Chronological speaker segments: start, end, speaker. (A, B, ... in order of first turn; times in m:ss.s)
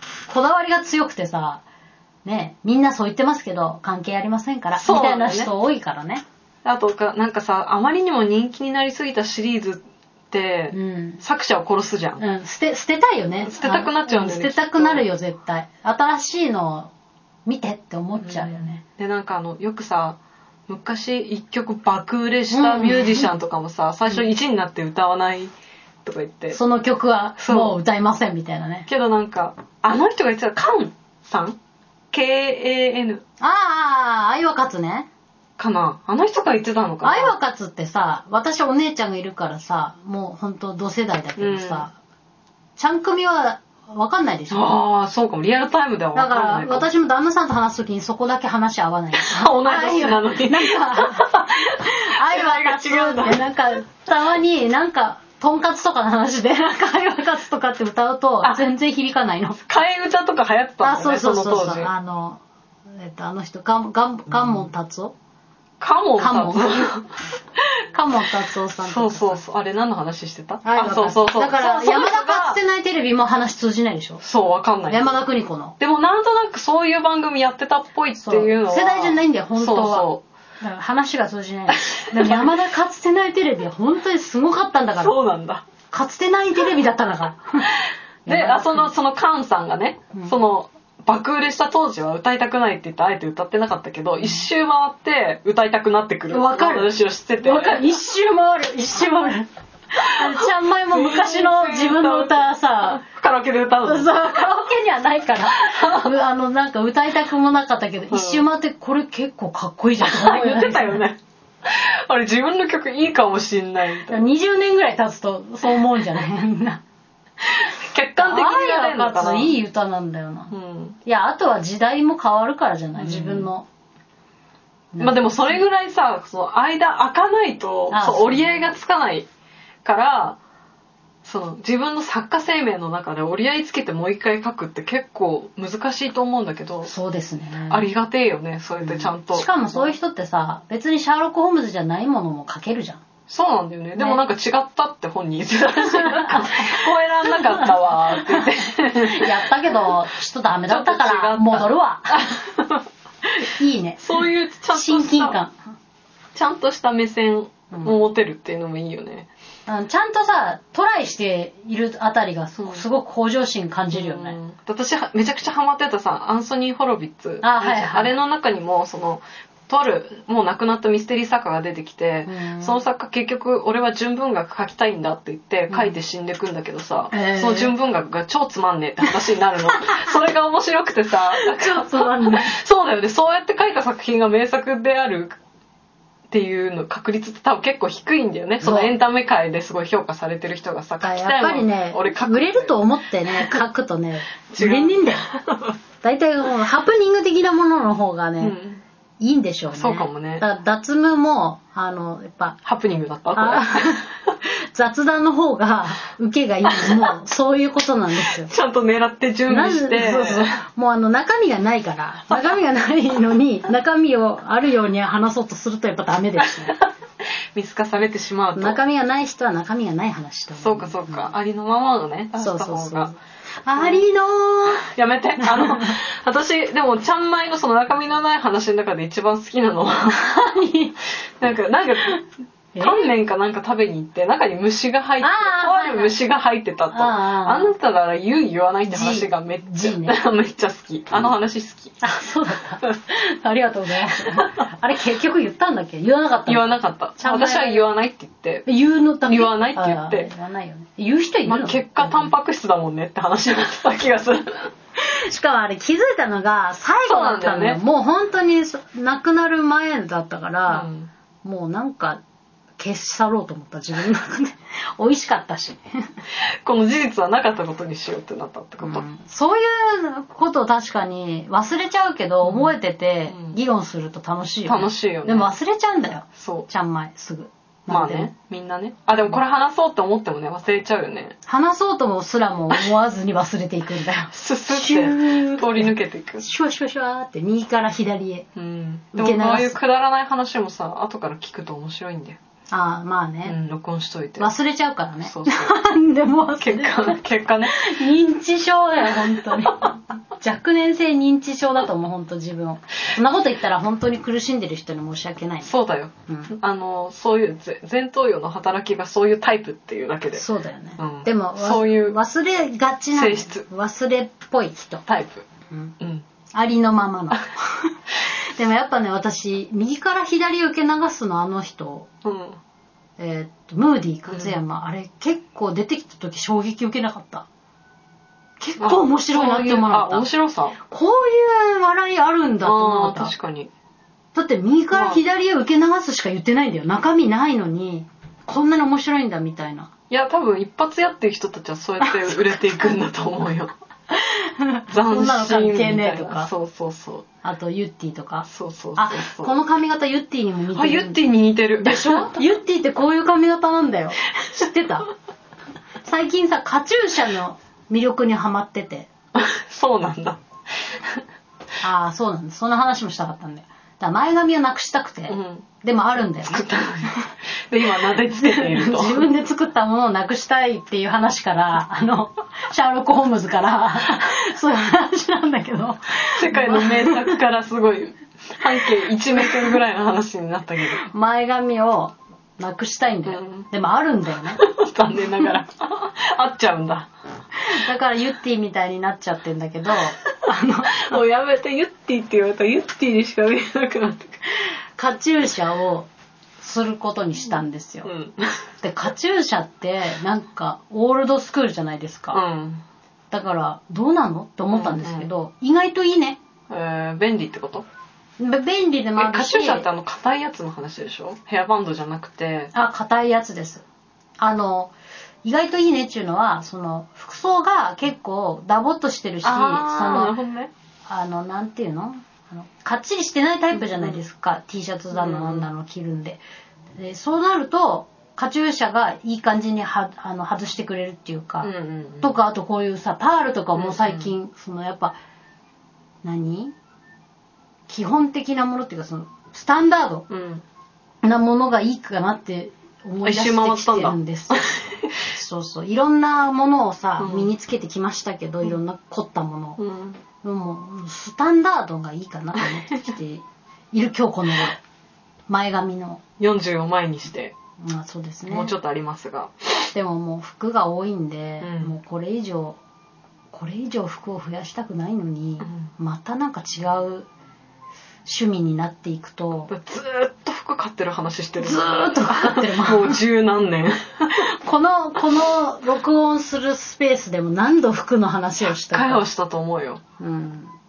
0:00.3-0:01.6 A
0:02.2-0:06.2 A
0:04.8-0:05.5 B
0:06.6-0:12.2 B
0:10.7-0:11.2 A
0:12.2-0:16.9 A
0:13.4-0:15.0 B
0:17.4-0:18.8 A
0:18.2-0:25.5 B
0:22.5-0:23.3 A
0:26.0-0:26.6 B
0:26.5-0:28.9 A
0:27.4-0:27.8 B
0:28.9-0:31.6 B
0:32.1-0:33.2 B
0:33.4-0:35.1 A
0:35.6-0:37.3 B
0:37.0-0:41.9 A
0:41.4-0:41.8 B
0:42.8-0:44.8 A
0:44.5-0:46.9 B
0:46.1-0:59.6 A
0:49.1-0:53.4 B
0:59.6-1:01.9 B
1:00.8-1:05.1 A
1:05.8-1:07.7 B
1:06.2-1:06.9 A
1:07.9-1:09.4 A
1:08.8-1:12.6 B
1:10.6-1:14.2 A
1:14.2-1:15.2 B
1:14.9-1:15.8 A
1:15.8-1:20.2 B
1:18.2-1:25.1 A
1:21.8-1:22.5 B
1:25.0-1:25.6 B
1:25.9-1:27.7 A
1:28.2-1:28.9 A
1:28.2-1:37.8 B
1:36.3-1:43.0 A
1:40.2-1:44.5 B
1:43.8-1:51.0 A
1:45.6-1:46.1 B
1:48.1-1:48.4 B
1:50.0-1:54.2 B
1:54.1-1:56.8 A
1:57.4-1:59.6 B
1:58.2-2:00.5 A
2:00.5-2:01.0 B
2:01.0-2:03.7 A
2:03.0-2:03.5 B
2:04.9-2:05.6 A
2:05.0-2:09.3 B
2:07.9-2:08.6 A
2:09.8-2:10.4 B
2:11.2-2:16.9 B
2:16.9-2:17.9 A
2:17.7-2:19.9 B
2:18.8-2:23.0 A
2:23.3-2:29.3 B
2:25.7-2:32.2 A
2:30.7-2:32.8 B
2:33.4-2:35.5 A
2:34.0-2:35.4 B
2:36.3-2:39.3 B
2:39.7-2:44.4 A
2:42.6-2:42.8 B
2:43.9-3:05.4 B
2:47.4-2:48.1 A
2:52.2-2:52.8 A
2:57.1-2:57.7 A
3:01.4-3:02.5 A
3:06.3-3:12.8 B
3:08.6-3:08.9 A
3:11.0-3:15.2 A
3:13.3-3:13.6 B
3:14.5-3:15.7 B
3:16.0-3:18.6 A
3:18.4-3:18.8 B
3:19.2-3:22.6 A
3:19.7-3:20.4 B
3:22.6-3:24.1 B
3:23.3-3:28.5 A
3:26.7-3:27.1 B
3:28.2-3:30.6 B
3:29.5-3:36.8 A
3:37.5-3:38.8 B
3:38.6-3:41.3 A
3:40.6-3:43.1 B
3:42.4-3:44.8 A
3:43.8-3:44.0 B
3:44.8-3:50.2 B
3:45.4-3:46.0 A
3:50.1-3:51.0 A
3:51.4-3:52.2 B
3:52.7-3:53.1 A
3:52.8-4:02.0 B
3:55.2-3:56.1 A
3:56.9-3:57.7 A
3:58.9-4:00.2 A
4:02.0-4:07.9 A
4:06.4-4:08.6 B
4:08.6-4:12.3 A
4:09.3-4:10.3 B
4:11.4-4:14.7 B
4:15.0-4:20.9 A
4:17.0-4:17.8 B
4:20.7-4:21.1 B
4:21.4-4:22.2 A
4:22.8-4:25.8 A
4:26.6-4:29.0 B
4:28.8-4:38.3 A
4:32.4-4:32.7 B
4:33.3-4:33.6 B
4:34.7-4:35.5 B
4:36.4-4:36.7 B
4:37.9-4:41.3 B
4:41.4-4:48.5 A
4:44.3-4:46.4 B
4:48.5-4:52.4 B
4:49.1-4:49.8 A
4:52.7-4:53.6 A
4:53.4-4:54.5 B
4:54.4-5:05.7 A
4:55.2-4:55.8 B
4:56.6-4:58.0 B
4:59.2-4:59.9 B
5:05.6-5:10.4 B
5:10.3-5:15.0 A
5:11.0-5:12.2 B
5:13.1-5:13.6 B
5:15.0-5:15.4 B
5:15.7-5:15.9 A
5:16.0-5:16.2 B
5:16.5-5:22.1 A
5:22.2-5:22.6 B
5:23.2-5:27.5 A
5:24.3-5:24.6 B
5:28.6-5:30.3 A
5:28.8-5:30.8 B
5:30.9-5:33.3 A
5:32.6-5:33.7 B
5:34.3-5:39.9 A
5:34.9-5:35.2 B
5:40.1-5:43.7 B
5:44.1-5:46.5 A
5:44.9-5:47.2 B
5:47.4-5:51.2 A
5:48.4-5:49.5 B
5:50.7-5:52.4 B
5:51.8-5:55.1 A
5:56.0-5:59.1 A
5:59.3-6:01.2 B
6:01.8-6:07.1 A
6:05.3-6:05.7 B
6:06.4-6:09.2 B
6:08.0-6:17.4 A
6:16.3-6:21.0 B
6:18.9-6:19.8 A
6:21.0-6:24.6 A
6:23.2-6:23.6 B
6:24.6-6:27.1 B
6:27.6-6:31.2 A
6:30.9-6:34.4 B
6:35.0-6:36.1 A
6:36.6-6:38.1 A
6:38.0-6:38.6 B
6:38.8-6:42.4 A
6:42.3-6:42.8 B
6:43.3-6:46.4 A
6:44.7-6:45.3 B
6:46.7-6:47.8 B
6:48.4-6:49.8 A
6:49.2-6:52.7 B
6:52.7-6:53.8 A
6:54.4-6:54.9 A
6:55.4-7:00.3 A
6:59.4-7:00.7 B
7:01.1-7:06.4 A
7:03.7-7:04.2 B
7:05.1-7:05.7 B
7:07.0-7:11.7 A
7:11.6-7:12.3 B
7:12.2-7:15.1 A
7:13.7-7:14.3 B
7:16.2-7:16.7 A
7:17.9-7:20.2 A
7:20.3-7:20.6 B
7:21.2-7:24.7 A
7:23.2-7:25.1 B
7:25.3-7:29.8 A
7:27.2-7:27.5 B
7:29.8-7:30.2 B
7:30.4-7:34.8 A
7:35.5-7:36.2 A
7:36.4-7:37.5 B
7:37.8-7:38.7 A
7:38.5-7:39.9 B
7:39.9-7:42.8 A
7:41.6-7:41.9 B
7:43.5-7:47.3 A
7:48.2-7:49.7 A
7:49.7-7:54.5 B
7:51.6-7:53.2 A
7:54.6-7:59.2 A
7:58.8-8:00.0 B
8:00.2-8:00.7 A